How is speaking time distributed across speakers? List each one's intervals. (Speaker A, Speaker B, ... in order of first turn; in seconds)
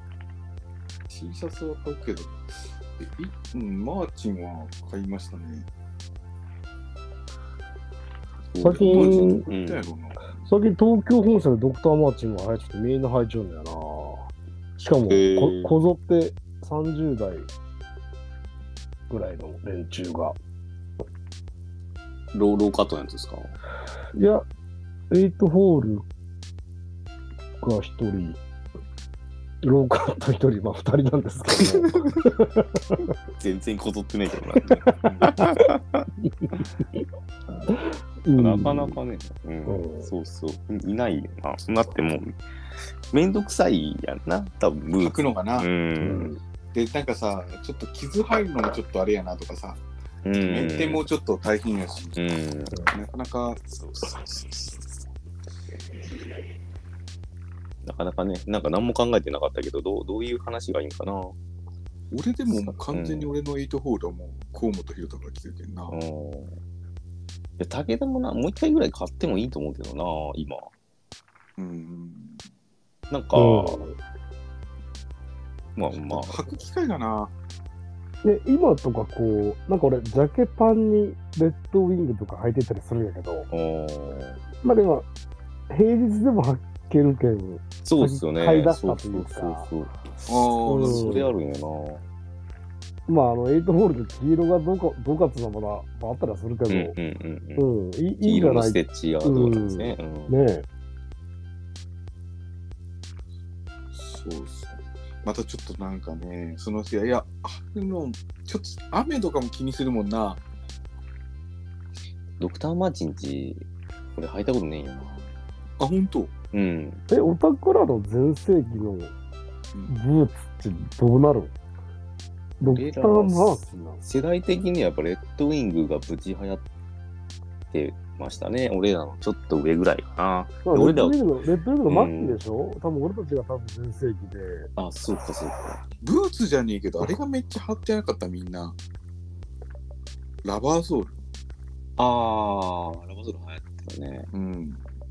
Speaker A: 1.1-5.7, 8.7-10.4, 45.0-45.7, 46.7-49.8, 50.4-52.3, 52.8-53.6, 62.1-66.0, 71.6-72.4, 75.9-77.3, 90.3-91.2, 103.9-110.4, 115.8-116.3, 136.0-138.8, 140.4-141.2, 144.3-144.8
Speaker B: 8.5-9.8, 14.8-15.8, 22.3-23.5, 31.6-32.2, 33.4-36.1, 38.4-42.4, 43.1-46.3, 50.2-51.1, 52.1-52.7, 53.7-54.9, 57.8-61.4, 62.5-63.3, 65.9-66.6, 67.6-70.7, 73.1-73.8, 75.8-76.5, 83.5-84.4, 87.8-92.0, 96.7-97.7, 98.2-100.4, 112.4-115.3, 116.5-117.0, 122.6-126.7, 127.7-131.2, 131.9-132.4, 134.8-135.8, 142.0-144.3
Speaker C: 8.6-9.5, 10.5-14.3, 14.8-17.5, 19.1-20.4, 24.1-24.5, 25.1-26.0, 27.6-28.4, 29.6-33.0, 34.8-35.6, 36.2-36.6, 37.7-39.0, 39.7-40.1, 46.0-46.4, 73.3-74.0, 78.2-83.5, 84.6-85.1, 85.7-89.7, 90.7-91.3, 93.1-97.0, 97.6-100.7, 117.1-119.1, 119.9-121.5, 122.6-124.0, 130.7-134.7